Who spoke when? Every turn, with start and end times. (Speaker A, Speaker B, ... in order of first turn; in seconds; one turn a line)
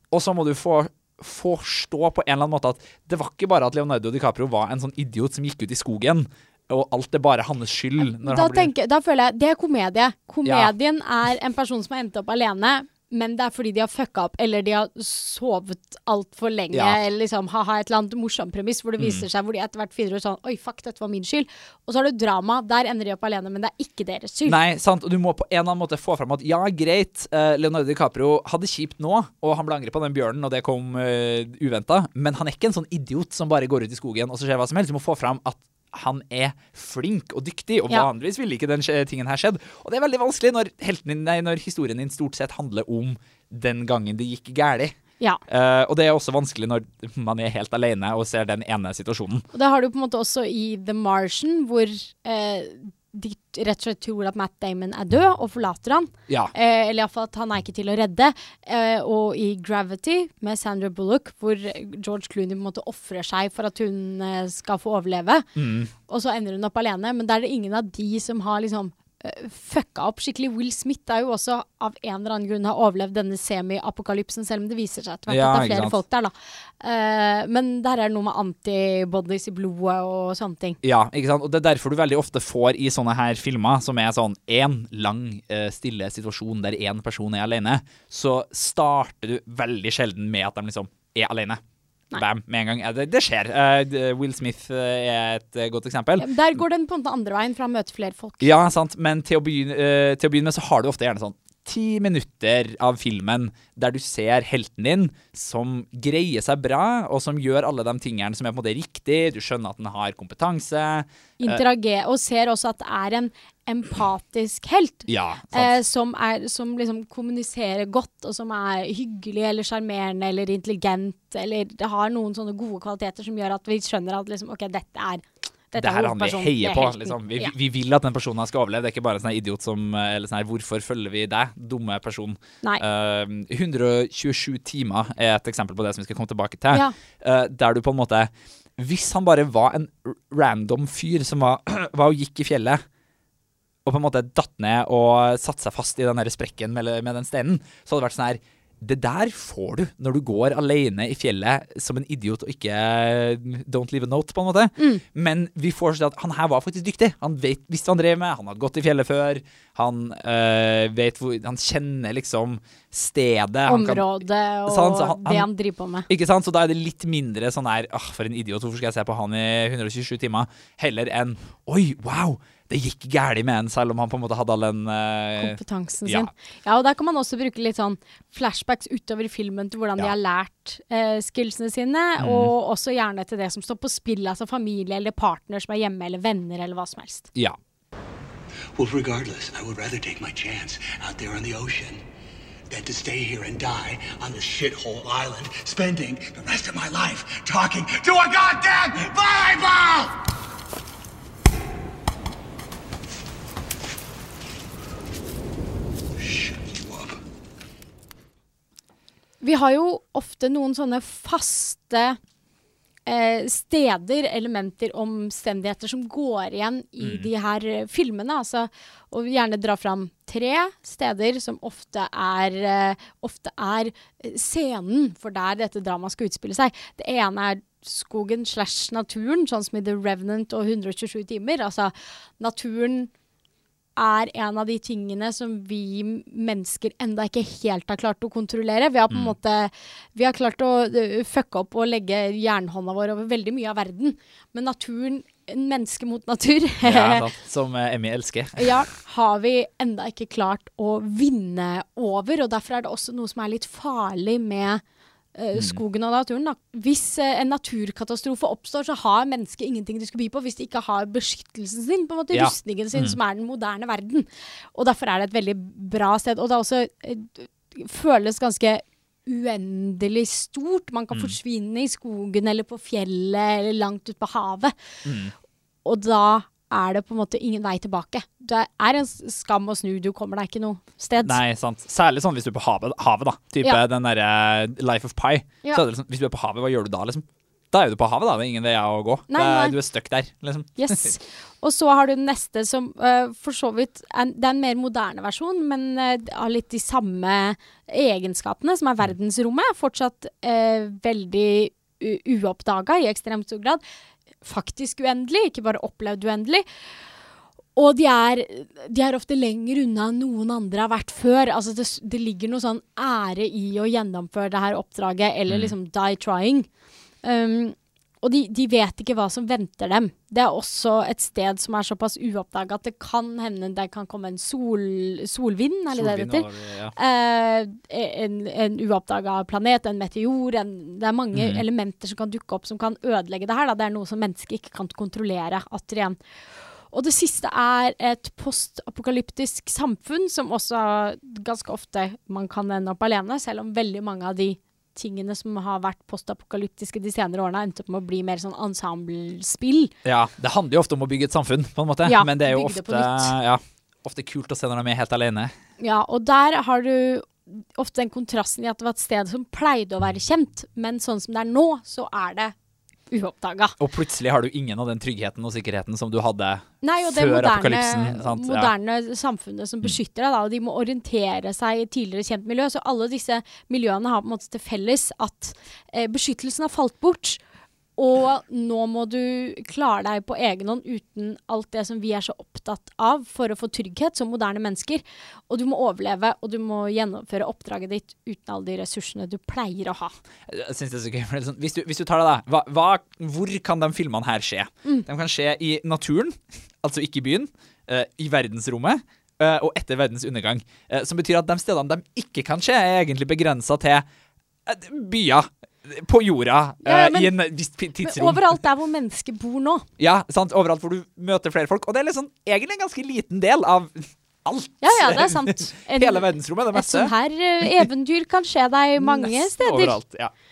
Speaker A: 0.1-8.7
Speaker B: 8.0-24.6
Speaker A: 10.4-10.7
Speaker A: 16.7-17.0
Speaker A: 19.0-19.2
Speaker A: 24.5-45.0
Speaker A: 45.5-49.5
Speaker B: 49.5-65.5
Speaker A: 65.6-65.9
Speaker B: 66.1-80.8
Speaker A: 75.3-76.0
Speaker A: 80.8-91.6
Speaker A: 92.2-96.6
Speaker B: 96.2-98.5
Speaker A: 98.4-111.6
Speaker B: 111.4-127.5
Speaker A: 115.1-115.7
Speaker A: 125.8-142.8
Speaker A: 143.8-165.5
Speaker B: 163.7-166.1
Speaker A: 166.1-176.3
Speaker B: 175.4-187.3
Speaker A: 182.2-182.5
Speaker C: 188.8-192.0
Speaker C: 192.7-200.2
Speaker C: 206.2-207.2
Speaker B: 209.4-212.2
Speaker B: 213.1-233.1
Speaker A: 217.0-217.3
Speaker B: 234.0-247.3
Speaker A: 246.8-248.8
Speaker B: 248.6-254.8
Speaker B: 255.4-274.7
Speaker A: 262.3-263.2
Speaker A: 275.1-275.3
Speaker B: 275.9-281.4
Speaker A: 281.2-291.1
Speaker B: 289.3-289.8
Speaker B: 290.8-303.8
Speaker B: 304.4-306.7
Speaker B: 307.8-316.7
Speaker B: 317.2-336.2
Speaker A: 325.9-326.9
Speaker A: 331.4-331.6
Speaker B: 336.9-349.9
Speaker A: 350.1-355.5
Speaker B: 352.1-353.4
Speaker B: 355.8-362.5
Speaker B: 363.1-363.8
Speaker A: 363.8-368.7
Speaker B: 366.8-377.4
Speaker B: 378.0-390.1
Speaker A: 390.5-404.1
Speaker A: 404.7-408.6
Speaker B: 406.9-407.3
Speaker B: 408.0-409.9
Speaker A: 410.0-417.1
Speaker B: 414.8-420.0
Speaker A: 419.0-420.3